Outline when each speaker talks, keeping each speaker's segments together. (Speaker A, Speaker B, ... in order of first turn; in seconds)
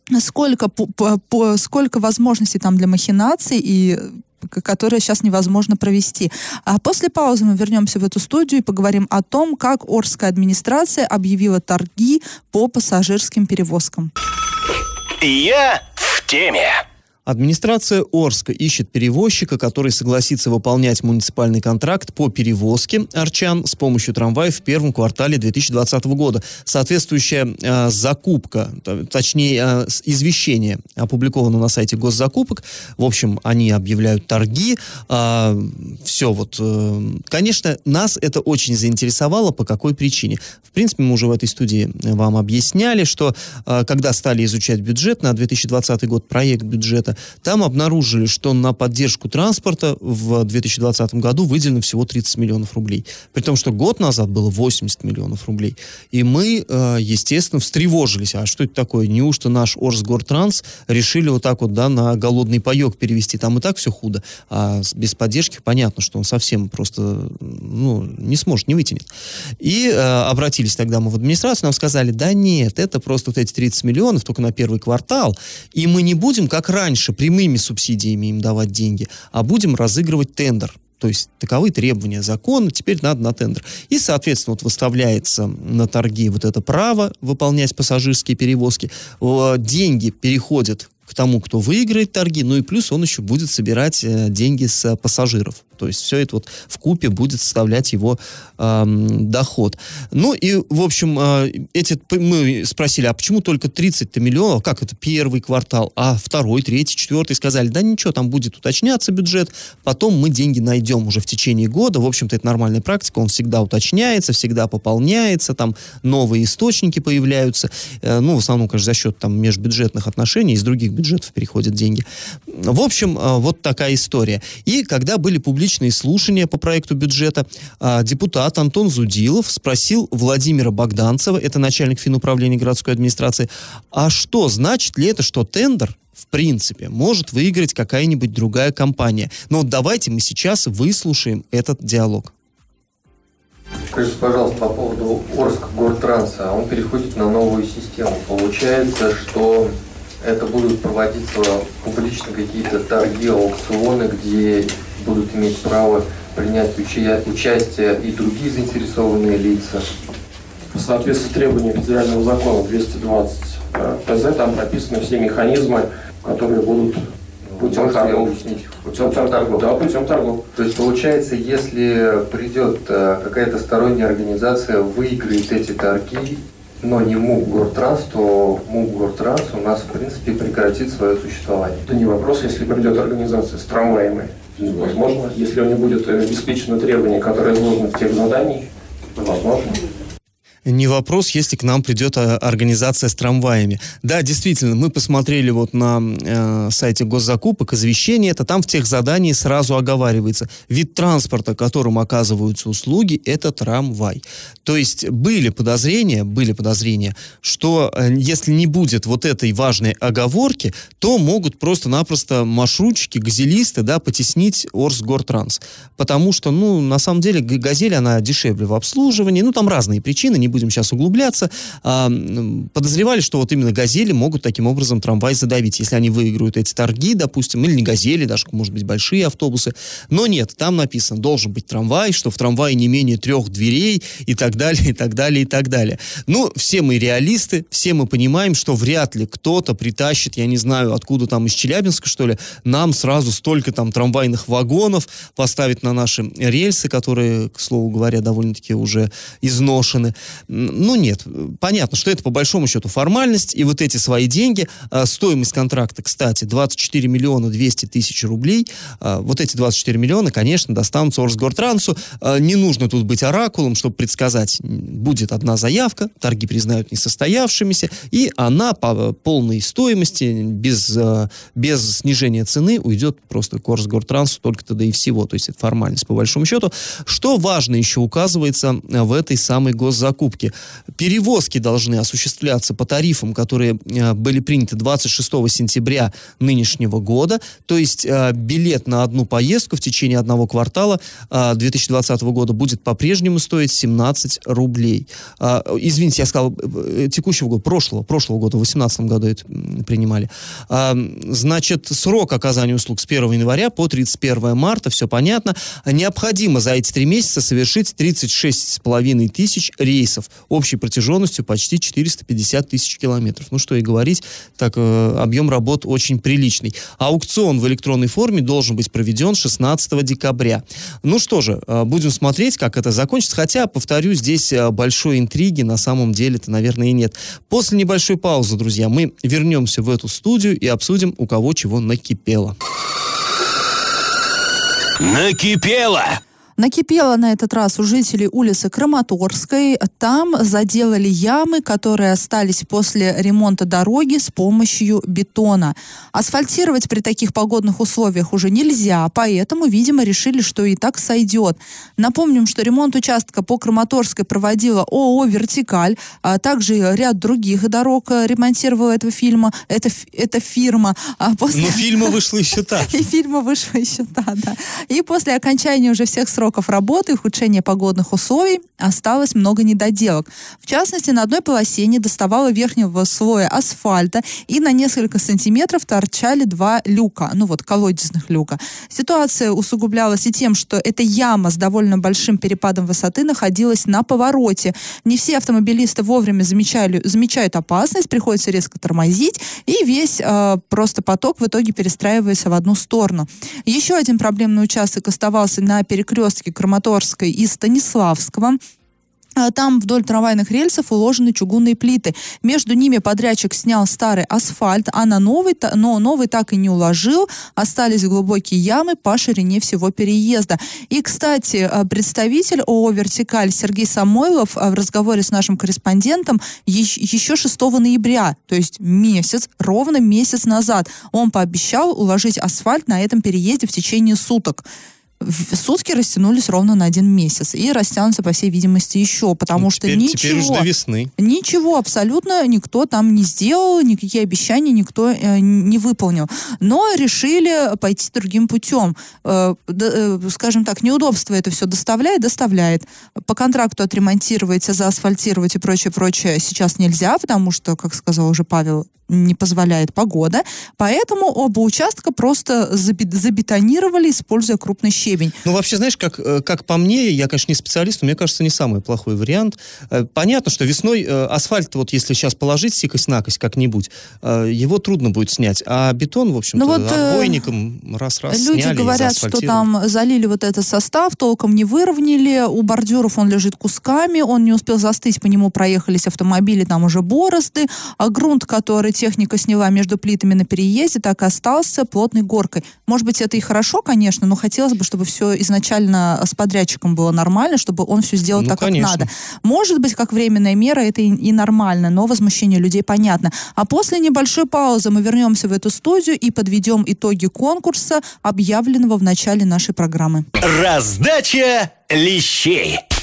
Speaker A: 0.1-14.1, 336.6-362.1, 362.8-398.6, 399.4-424.6, 425.2-455.4, 466.6-467.4, 468.3-500.2
Speaker B: 15.2-16.8, 335.0-336.2, 500.4-502.8
Speaker C: 17.3-69.1, 69.6-142.3, 190.7-332.6, 361.5-363.0, 429.6-431.1, 455.4-469.7, 488.4-489.1
Speaker D: 143.9-159.9, 167.4-169.7, 170.6-181.9
Speaker E: 160.7-167.1, 167.6-170.5, 181.9-189.8